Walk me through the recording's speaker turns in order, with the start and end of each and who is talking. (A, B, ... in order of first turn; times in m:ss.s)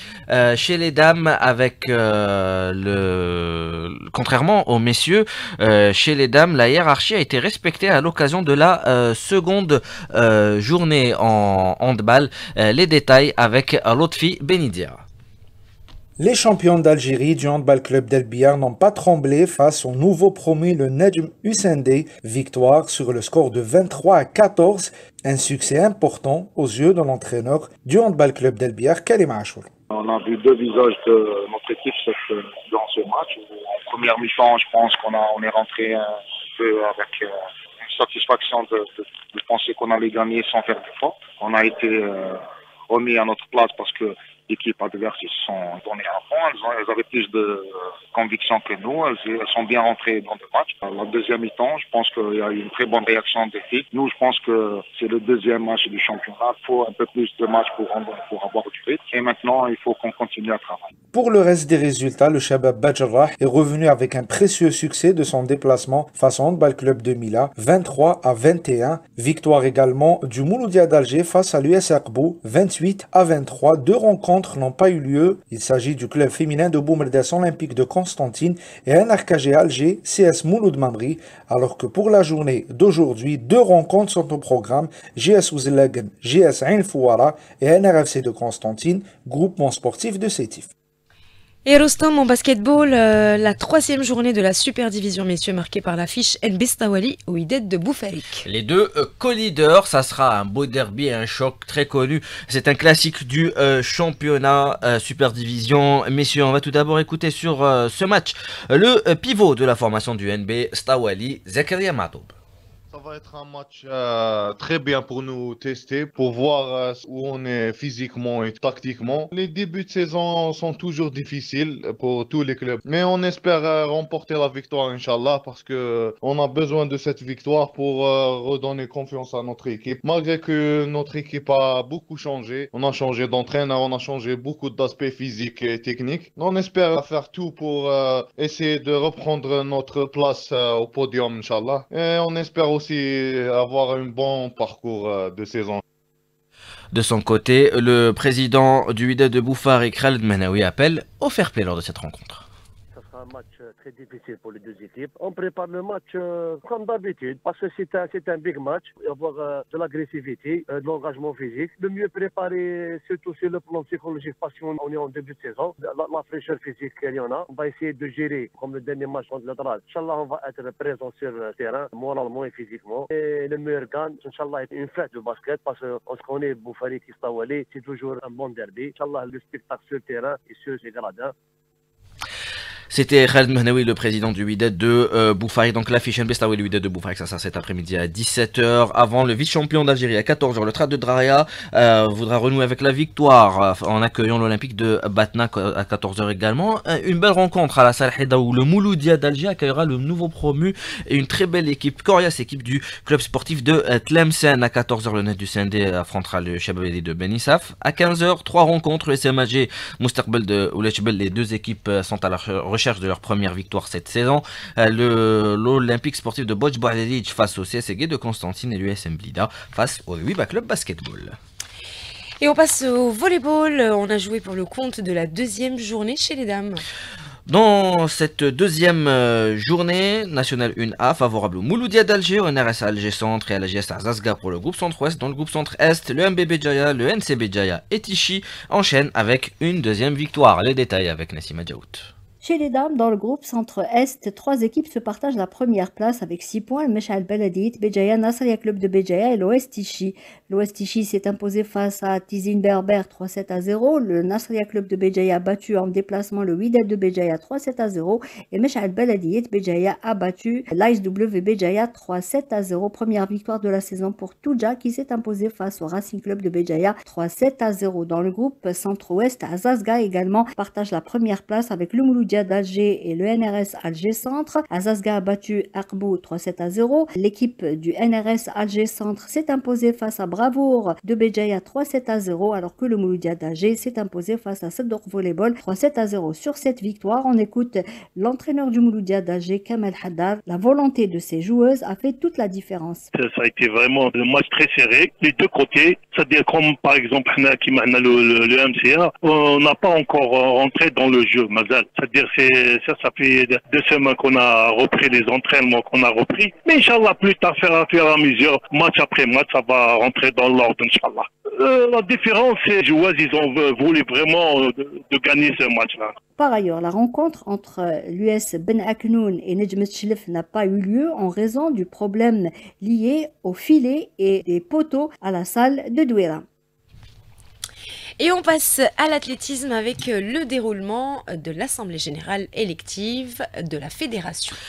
0:00.3-0:15.0 A
0:16.2-0:29.7 B
0:29.9-0:37.3 C
0:37.8-0:42.4 C
0:42.9-1:00.8 C
1:01.1-1:30.7 B
1:31.6-1:38.4 D
1:38.4-1:52.3 A
1:52.9-2:25.8 E
2:26.9-2:32.4 A
2:32.9-3:01.3 F
3:02.9-3:41.4 A
3:42.4-3:46.8 D
3:47.5-4:02.1 A
4:02.4-4:53.1 G
4:53.1-5:16.1 H
5:16.4-5:26.4 G
5:28.2-5:34.6 D